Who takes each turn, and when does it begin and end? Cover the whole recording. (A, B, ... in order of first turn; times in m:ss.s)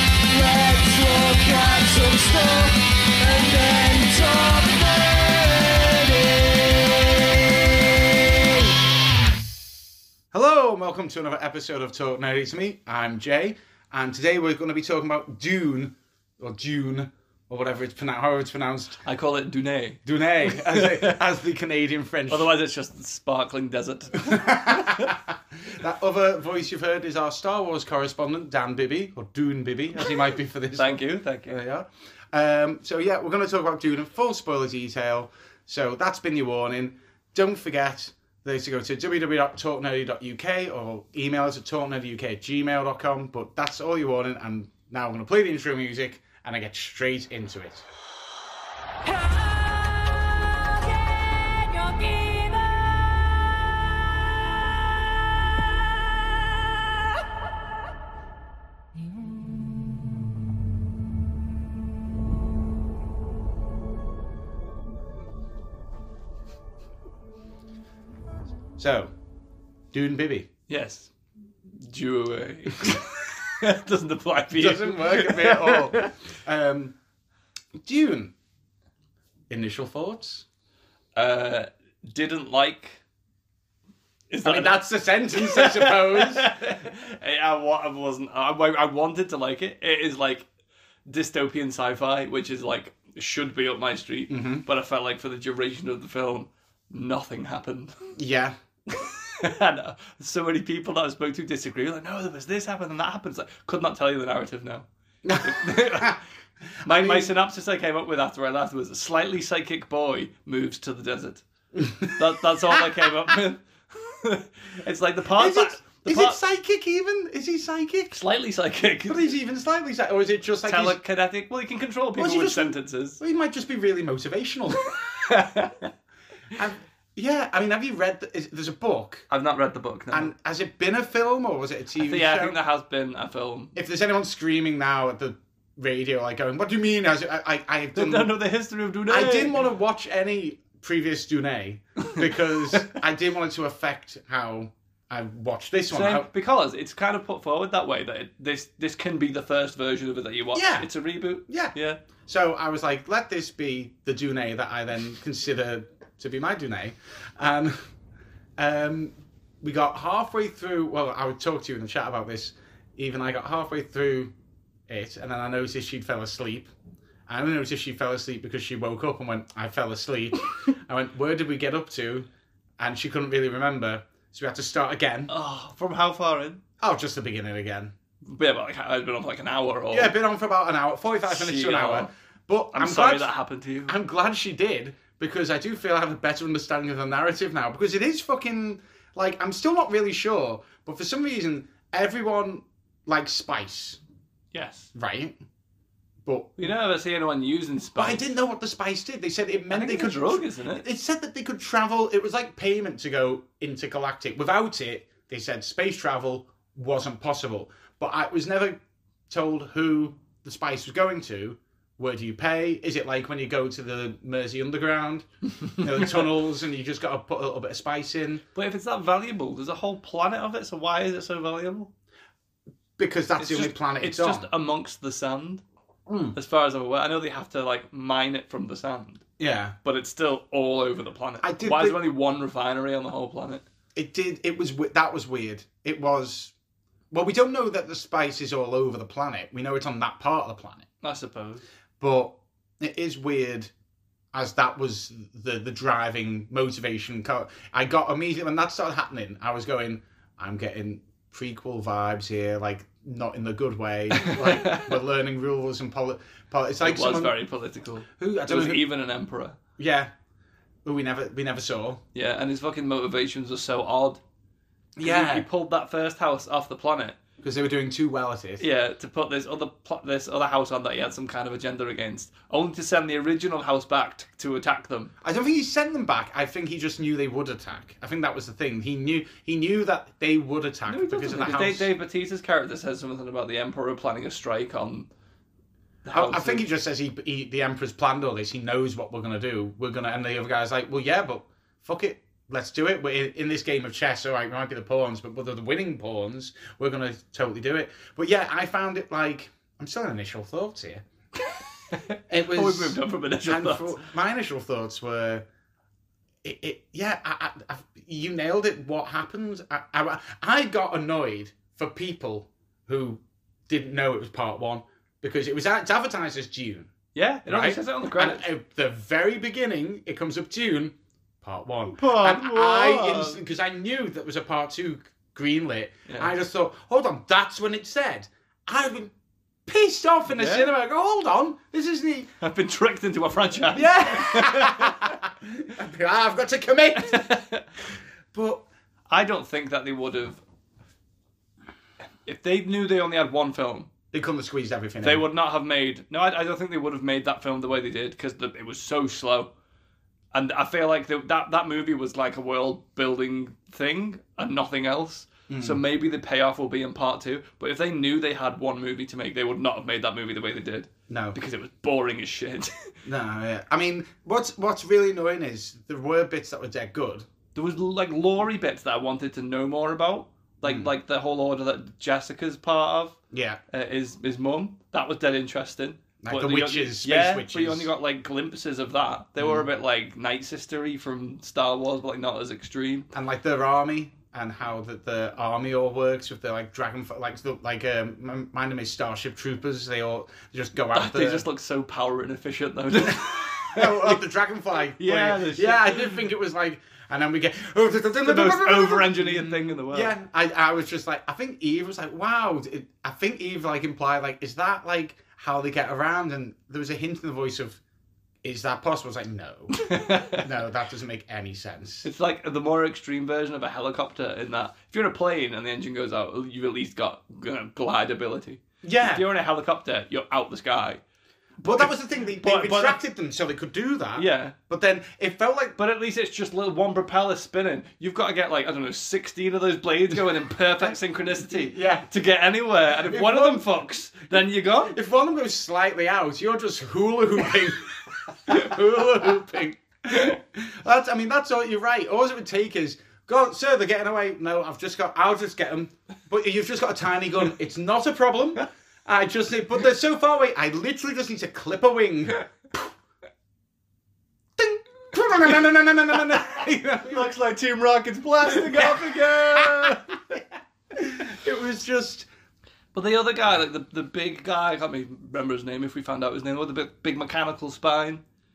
0:00.3-0:08.8 A
0:10.3-0:19.0 B
0:19.0-0:21.2 C
0:20.0-0:22.5 B
0:22.3-0:25.1 C
0:24.3-0:47.8 B
0:30.7-0:31.6 C
0:49.1-0:50.2 A
0:51.2-0:53.0 A
1:08.8-1:09.1 B
1:09.9-1:10.5 B
1:10.7-1:11.1 C
1:11.6-1:16.1 C
1:14.5-1:17.0 B
1:17.8-1:18.3 B
1:19.5-1:20.4 B
1:21.1-1:23.0 C
1:24.3-1:30.5 C
1:24.4-1:26.5 B
1:31.1-1:38.1 C
1:34.3-1:34.6 B
1:38.2-1:38.5 B
1:38.9-1:44.9 C
1:45.2-1:46.2 B
1:45.4-1:46.2 C
1:46.8-1:47.3 B
1:46.8-1:51.4 C
1:51.8-1:53.4 B
1:52.0-1:56.4 C
1:55.4-1:58.2 B
1:58.1-1:59.3 C
1:59.1-2:01.0 B
2:00.6-2:03.2 C
2:02.2-2:04.9 B
2:04.8-2:05.9 C
2:06.5-2:09.2 B
2:09.3-2:10.3 C
2:10.1-2:12.6 B
2:12.0-2:13.8 C
2:13.8-2:18.3 B
2:17.9-2:19.6 C
2:19.1-2:26.3 B
2:22.7-2:23.0 C
2:25.9-2:32.0 C
2:30.5-2:30.9 B
2:31.5-2:31.7 B
2:32.2-2:37.8 B
2:38.6-2:44.3 B
2:44.9-2:46.7 B
2:47.3-2:52.3 B
2:52.8-2:55.3 B
2:55.3-2:56.6 C
2:56.8-2:57.9 B
2:58.3-3:00.1 C
2:59.9-3:03.3 B
3:01.3-3:02.1 C
3:02.7-3:03.9 C
3:03.8-3:14.0 B
3:14.5-3:14.9 C
3:14.9-3:15.4 B
3:16.2-3:16.7 B
3:16.6-3:18.3 C
3:17.9-3:28.8 B
3:19.7-3:20.8 C
3:29.3-3:38.4 B
3:35.6-3:36.2 C
3:38.5-3:41.9 C
3:43.0-3:44.5 B
3:43.4-3:45.6 C
3:46.1-3:46.4 B
3:46.3-3:49.2 C
3:49.4-3:49.7 B
3:49.8-3:53.6 C
3:51.4-3:52.0 B
3:53.9-3:56.5 B
3:57.1-4:00.8 B
4:01.0-4:01.6 C
4:02.0-4:03.7 B
4:04.3-4:17.4 B
4:14.1-4:15.0 C
4:16.8-4:19.6 C
4:18.2-4:18.8 B
4:19.8-4:20.1 B
4:20.8-4:22.0 B
4:22.1-4:24.2 C
4:25.0-4:25.5 B
4:25.0-4:27.2 C
4:27.4-4:28.6 B
4:28.6-4:35.1 C
4:35.2-4:41.9 B
4:40.9-4:45.1 C
4:46.0-4:46.6 C
4:46.1-5:01.0 B
5:01.4-5:04.0 C
5:02.3-5:05.4 B
5:06.4-5:16.9 B
5:17.1-5:18.4 C
5:17.5-5:29.1 B
5:21.9-5:23.4 C
5:26.1-5:26.3 C
5:29.6-5:32.3 B
5:30.3-5:30.7 C
5:32.4-5:35.2 C
5:33.7-5:37.2 B
5:37.0-5:37.7 C
5:38.3-5:38.6 B
5:39.1-5:40.4 C
5:42.2-5:43.9 C
5:44.1-5:45.2 B
5:45.0-5:49.5 C
5:50.3-6:02.9 C
5:55.5-5:55.8 B
6:01.1-6:01.4 B
6:03.0-6:07.3 B
6:07.5-6:13.2 C
6:10.6-6:10.9 B
6:13.3-6:13.6 B
6:13.7-6:23.1 C
6:16.2-6:17.9 B
6:19.4-6:19.7 B
6:23.1-6:31.5 B
6:30.9-6:34.2 C
6:33.1-6:47.8 B
6:34.9-6:36.2 C
6:38.2-6:40.1 C
6:48.4-6:52.1 B
6:49.8-6:50.4 C
6:52.0-7:01.0 C
6:58.8-6:59.2 B
7:01.6-7:03.0 C
7:01.6-7:05.8 B
7:04.1-7:04.5 C
7:05.8-7:15.0 C
7:11.5-7:12.1 B
7:13.0-7:13.9 B
7:14.9-7:32.8 B
7:34.6-7:37.3 B
7:37.0-7:40.4 C
7:38.4-7:40.4 B
7:40.9-7:42.3 B
7:42.9-7:48.2 C